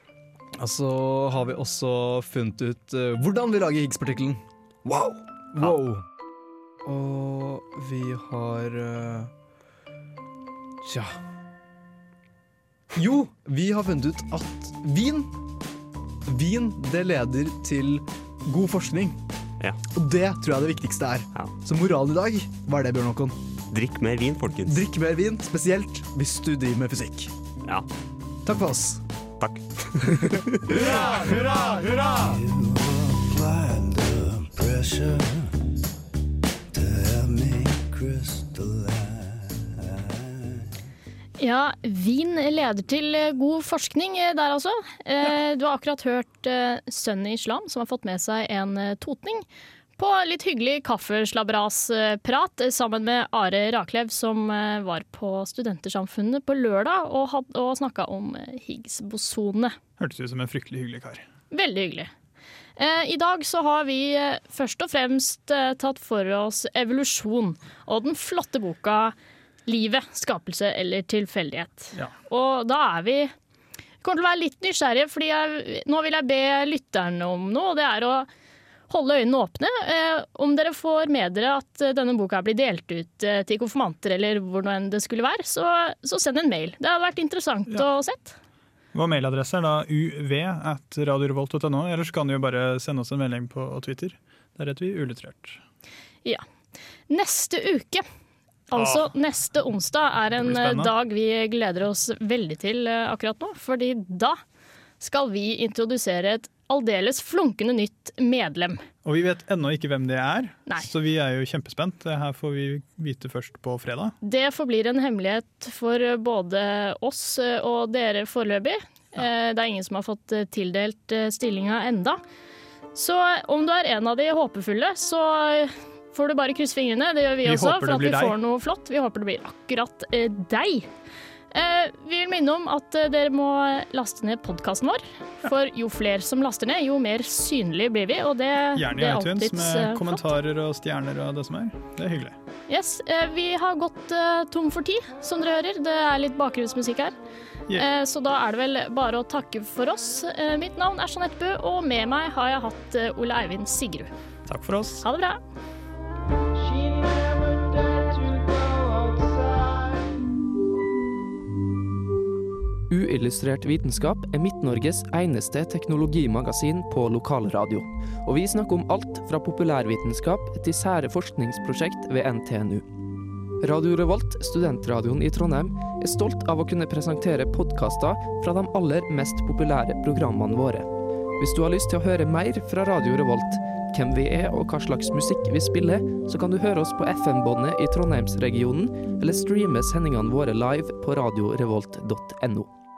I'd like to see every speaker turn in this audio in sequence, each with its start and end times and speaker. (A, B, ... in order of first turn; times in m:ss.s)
0:00.6-0:06.0 A
0:06.8-0:09.3 A
0:10.8-0:11.2 A
0:12.9-0:15.4 A
0:16.3-0:19.2 A
0:19.9-0:23.4 A
0:23.7-0:24.9 B
0:24.6-0:27.3 A
0:28.4-0:29.0 A
0:29.4-0:30.1 B
0:30.0-0:32.3 A
0:41.4-0:49.4 C
0:50.0-0:59.8 C
1:00.0-1:01.2 D
1:01.5-1:02.1 C
1:02.8-1:13.3 C
1:14.0-1:18.3 C
1:18.9-1:28.4 C
1:28.9-1:35.6 D
1:37.1-1:38.0 C
1:38.7-1:44.4 C
1:38.8-1:39.1 D
1:40.4-1:40.9 D
1:45.0-1:48.8 C
1:49.0-1:54.2 D
1:54.2-2:02.2 C
2:02.9-2:10.9 C
2:07.4-2:08.4 D
2:11.5-2:20.2 C
2:18.8-2:22.4 D
2:22.7-2:27.1 C
2:27.7-2:34.1 C
2:34.5-2:35.0 D
2:35.0-2:35.4 C
2:42.9-2:52.9 E
2:53.6-3:12.7 E